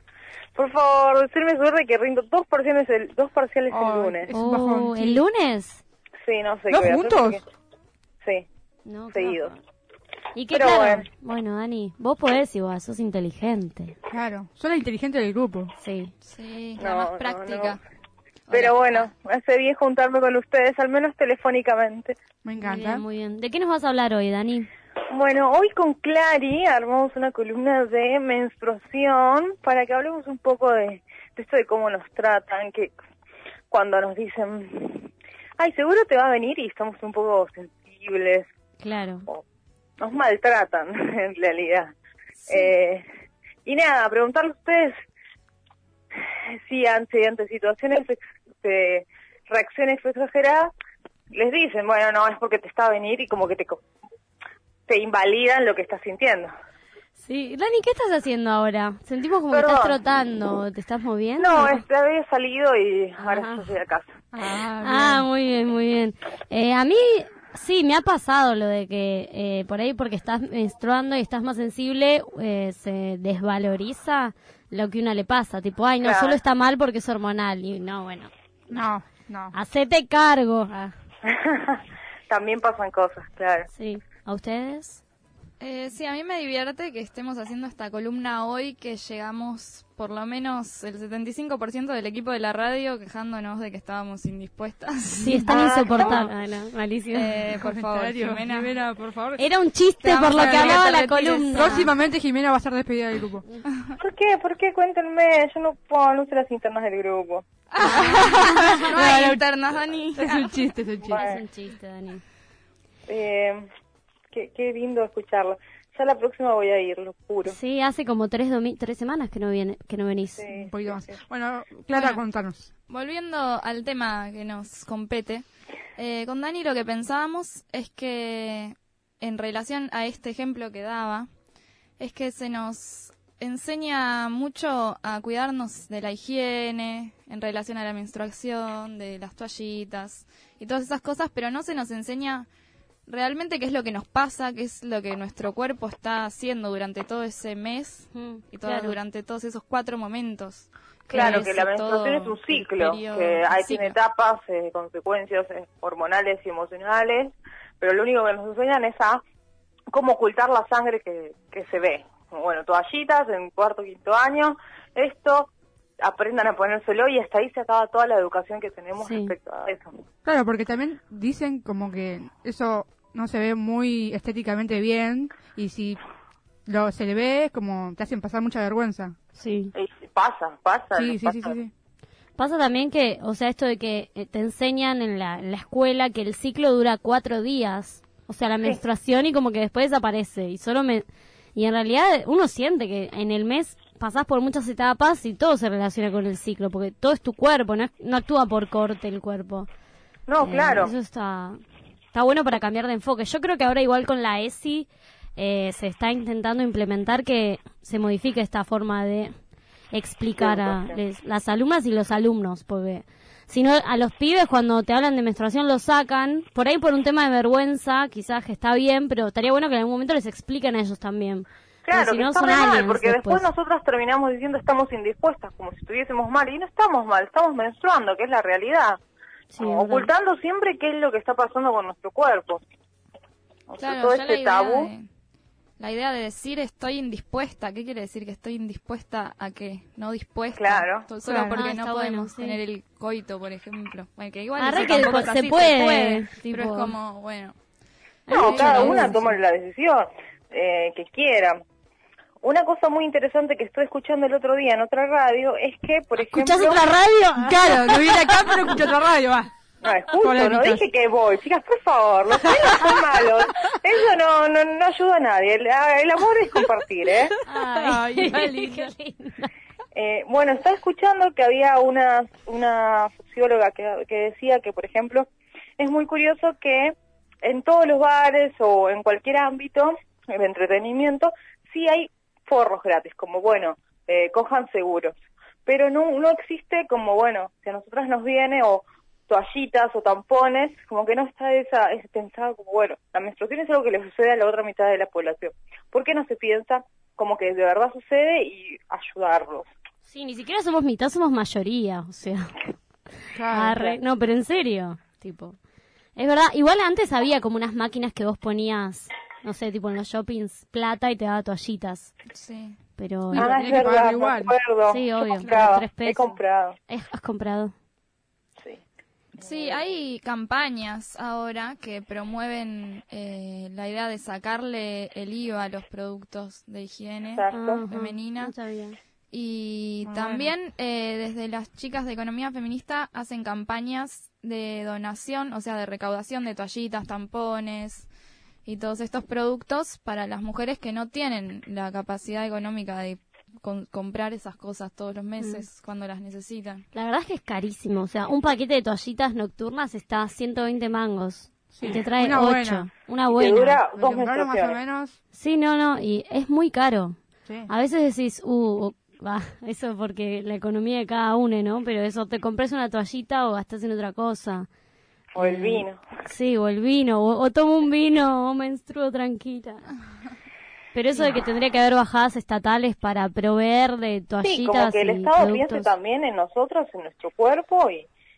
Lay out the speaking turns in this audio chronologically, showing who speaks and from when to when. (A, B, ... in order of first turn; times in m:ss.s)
0:00.6-0:04.3 A
0:03.7-0:05.2 B
0:04.3-0:05.8 C
0:06.3-0:07.4 A
0:06.7-0:07.4 B
0:08.8-0:09.6 C
0:09.1-0:09.5 A
0:10.4-0:14.0 C
0:10.5-0:11.1 A
0:14.1-0:15.7 B
0:15.8-0:16.1 C
0:16.2-0:17.8 D
0:16.8-0:17.8 A
0:18.5-0:19.1 D
0:18.5-0:22.2 A
0:22.4-0:23.0 B
0:22.6-0:24.7 C
0:25.1-0:32.9 A
0:33.7-0:38.5 A
0:38.8-0:39.3 C
0:40.0-0:41.9 A
0:42.4-0:42.7 D
0:42.5-0:43.0 A
0:43.6-0:45.0 A
0:46.5-0:50.7 A
0:51.3-0:53.8 A
0:54.9-0:56.5 A
0:57.2-1:01.8 C
0:59.5-1:00.0 A
1:01.4-1:04.2 A
1:03.2-1:03.7 C
1:04.3-1:05.3 B
1:04.8-1:18.3 C
1:16.0-1:16.4 A
1:18.7-1:19.6 B
1:19.5-1:20.9 C
1:21.3-1:23.7 A
1:23.7-1:25.0 C
1:25.6-1:35.5 D
1:35.2-1:37.4 C
1:35.5-1:36.2 A
1:36.0-1:36.3 B
1:37.1-1:38.8 D
1:37.6-1:39.5 B
1:39.4-1:41.9 C
1:40.0-1:41.9 D
1:40.3-1:40.9 B
1:41.5-1:43.4 B
1:44.0-1:47.4 A
1:47.7-1:50.6 D
1:47.8-1:48.8 C
1:48.0-1:49.4 B
1:50.2-1:51.2 B
1:51.0-1:51.4 A
1:51.1-1:52.2 C
1:53.1-1:53.7 A
1:54.3-1:57.6 A
1:57.4-2:00.4 C
2:00.4-2:01.2 A
2:00.5-2:02.7 B
2:01.9-2:02.2 D
2:02.9-2:05.4 D
2:06.0-2:11.3 D
2:12.0-2:22.5 D
2:23.1-2:34.0 D
2:28.1-2:29.0 C
2:31.1-2:31.5 C
2:31.1-2:39.2 A
2:39.9-2:45.5 A
2:46.0-2:49.9 A
2:49.0-2:49.3 C
2:50.2-2:56.0 B
2:56.7-2:59.2 B
2:59.4-2:59.7 C
2:59.7-3:01.6 A
3:01.0-3:01.7 B
3:02.4-3:19.7 C
3:20.3-3:21.0 A
3:20.4-3:21.6 C
3:22.1-3:29.3 C
3:29.9-3:43.5 C
3:30.4-3:31.0 A
3:41.9-3:49.0 A
3:49.5-3:50.1 C
3:49.6-3:52.6 A
3:53.7-3:54.9 A
3:53.8-3:55.1 D
3:55.8-4:07.6 D
4:00.6-4:01.1 A
4:01.2-4:02.6 C
4:04.6-4:07.0 C
4:08.3-4:09.2 C
4:08.3-4:11.6 A
4:08.4-4:09.2 D
4:12.4-4:16.8 A
4:16.2-4:18.8 C
4:17.4-4:19.5 B
4:19.8-4:27.3 A
4:20.2-4:20.8 B
4:27.5-4:29.5 C
4:27.8-4:28.7 D
4:27.9-4:28.8 B
4:29.9-4:35.3 A
4:35.8-4:45.1 A
4:45.7-4:59.7 A
5:00.0-5:02.7 C
5:03.3-5:03.9 B
5:03.5-5:05.6 C
5:06.2-5:12.1 C
5:12.3-5:12.8 D
5:13.0-5:13.5 C
5:13.3-5:14.5 B
5:13.4-5:16.8 A
5:14.9-5:17.7 C
5:19.4-5:28.5 D
5:19.4-5:19.8 A
5:27.3-5:27.9 A
5:27.5-5:29.0 C
5:29.3-5:38.1 D
5:30.0-5:30.5 B
5:38.7-5:46.8 D
5:46.9-5:53.8 C
5:51.7-5:52.9 B
5:53.3-5:54.8 A
5:53.9-5:55.2 B
5:55.3-5:57.2 C
5:57.7-6:04.7 C
6:05.4-6:06.0 A
6:05.4-6:09.9 C
6:10.9-6:15.9 C
6:14.4-6:18.1 A